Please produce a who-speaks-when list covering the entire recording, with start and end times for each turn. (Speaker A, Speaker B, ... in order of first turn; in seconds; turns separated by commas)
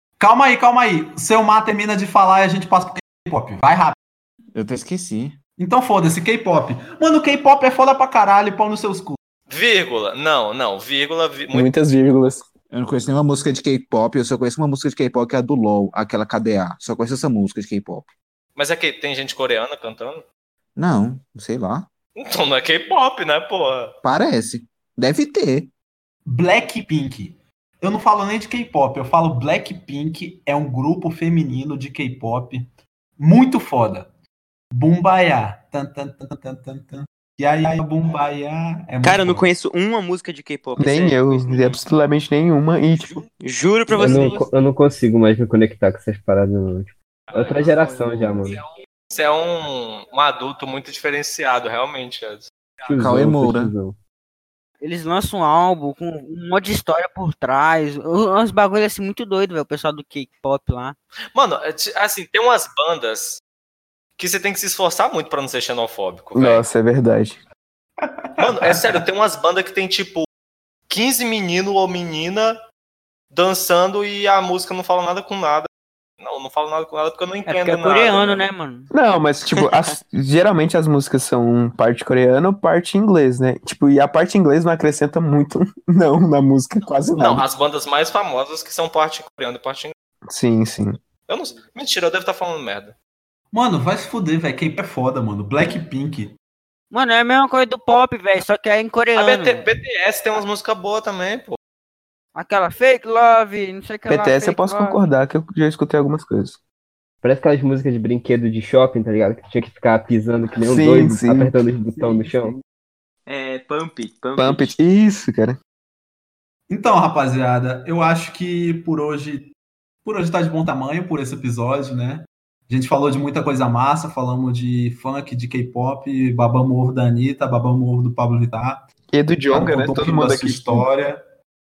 Speaker A: 0.2-4.0, Speaker B: 4.5-5.4, Speaker A: 5.6-9.2, Speaker C: 9.5-11.7, Speaker D: 11.5-12.4, Speaker B: 12.7-18.1, Speaker C: 18.6-20.2, Speaker B: 20.8-21.9, Speaker C: 22.1-23.9, Speaker B: 24.0-25.7, Speaker A: 26.2-32.6, Speaker A: 33.2-34.1, Speaker A: 34.7-39.5, Speaker E: 39.0-41.8, Speaker D: 40.8-43.2, Speaker E: 43.0-44.5, Speaker F: 43.9-48.6, Speaker C: 47.3-47.7, Speaker C: 49.1-52.5, Speaker F: 52.8-54.0, Speaker B: 52.9-53.7, Speaker G: 54.8-61.0, Speaker C: 61.3-63.4, Speaker C: 64.2-66.6, Speaker D: 66.3-67.4, Speaker A: 68.0-69.0, Speaker C: 68.4-70.2, Speaker C: 70.9-72.5, Speaker C: 73.3-75.7, Speaker C: 76.2-78.5, Speaker G: 77.5-78.9, Speaker D: 78.9-87.5, Speaker C: 87.2-89.9, Speaker D: 90.3-91.0, Speaker C: 91.3-92.9, Speaker A: 93.5-96.3, Speaker G: 96.9-99.6, Speaker C: 99.2-101.6, Speaker G: 102.3-105.1, Speaker D: 104.1-106.6, Speaker F: 107.2-112.6, Speaker D: 110.6-111.5, Speaker E: 113.3-114.7, Speaker D: 114.4-115.6, Speaker A: 116.7-119.5, Speaker A: 120.0-128.8, Speaker D: 129.1-130.9, Speaker A: 129.5-131.2